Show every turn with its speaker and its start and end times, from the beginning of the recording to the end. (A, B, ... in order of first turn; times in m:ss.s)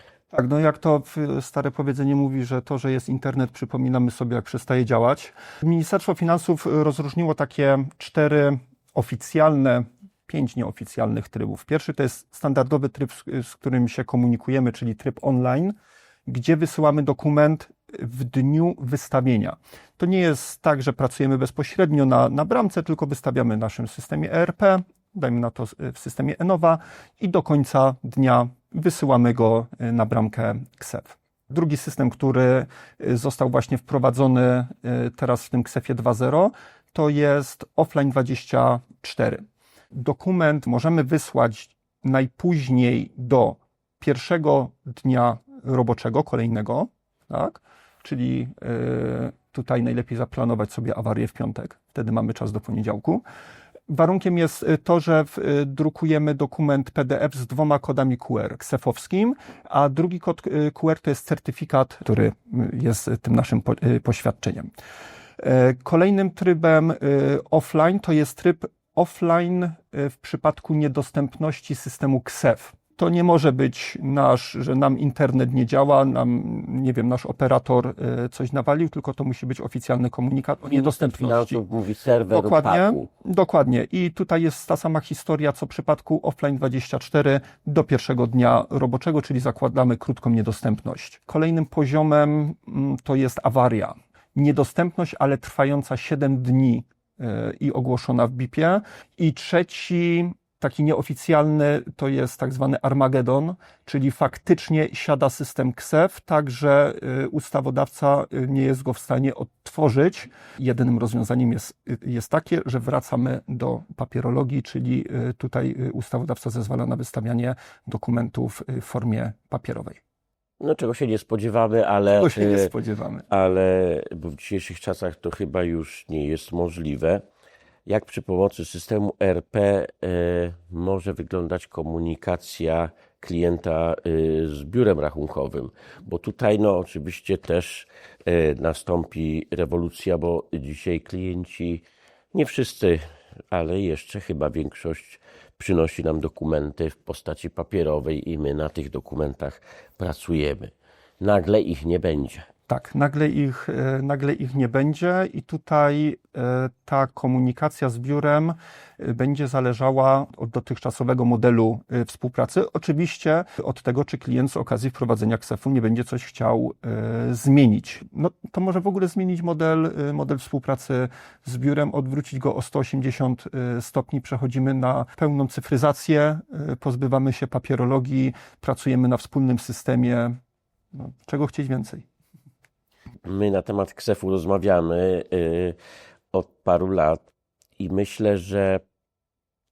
0:00.3-0:39.4 A
0:39.9-0:53.2 A
0:53.9-1:04.7 A
1:05.4-1:21.6 A
1:20.7-1:23.1 B
1:22.3-2:00.0 A
2:00.6-2:02.7 B
2:02.2-2:03.3 A
2:03.3-2:07.2 B
2:07.8-2:32.4 B
2:32.7-3:00.4 A
3:00.9-3:02.0 A
3:03.2-3:05.7 B
3:06.3-3:07.3 B
3:07.8-3:08.8 B